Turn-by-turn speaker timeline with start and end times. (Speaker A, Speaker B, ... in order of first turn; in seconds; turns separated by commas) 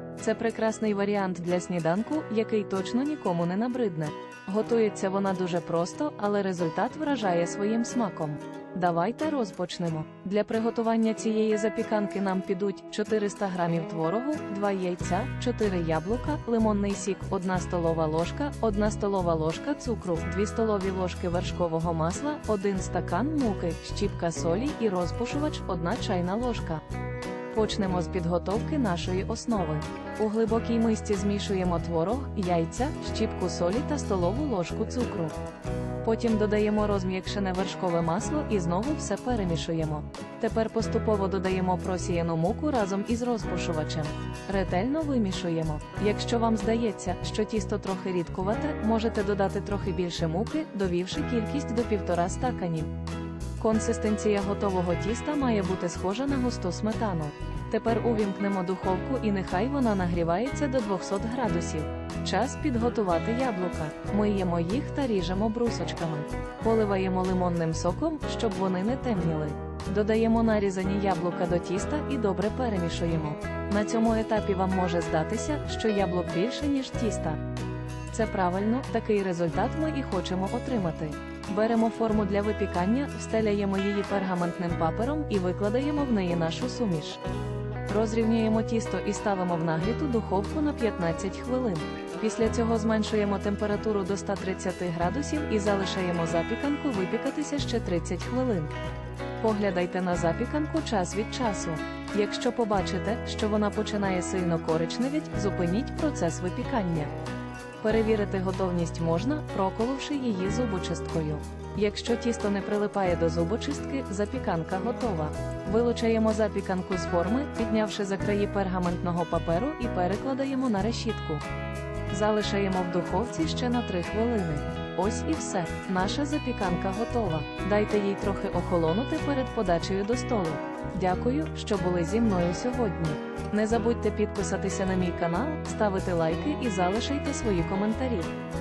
Speaker A: 0.2-26.8, Speaker A: 27.5-35.4, Speaker A: 36.0-52.9, Speaker A: 53.6-77.4, Speaker A: 78.1-87.2, Speaker A: 87.9-98.7, Speaker A: 99.4-107.1, Speaker A: 107.8-121.4, Speaker A: 122.1-138.3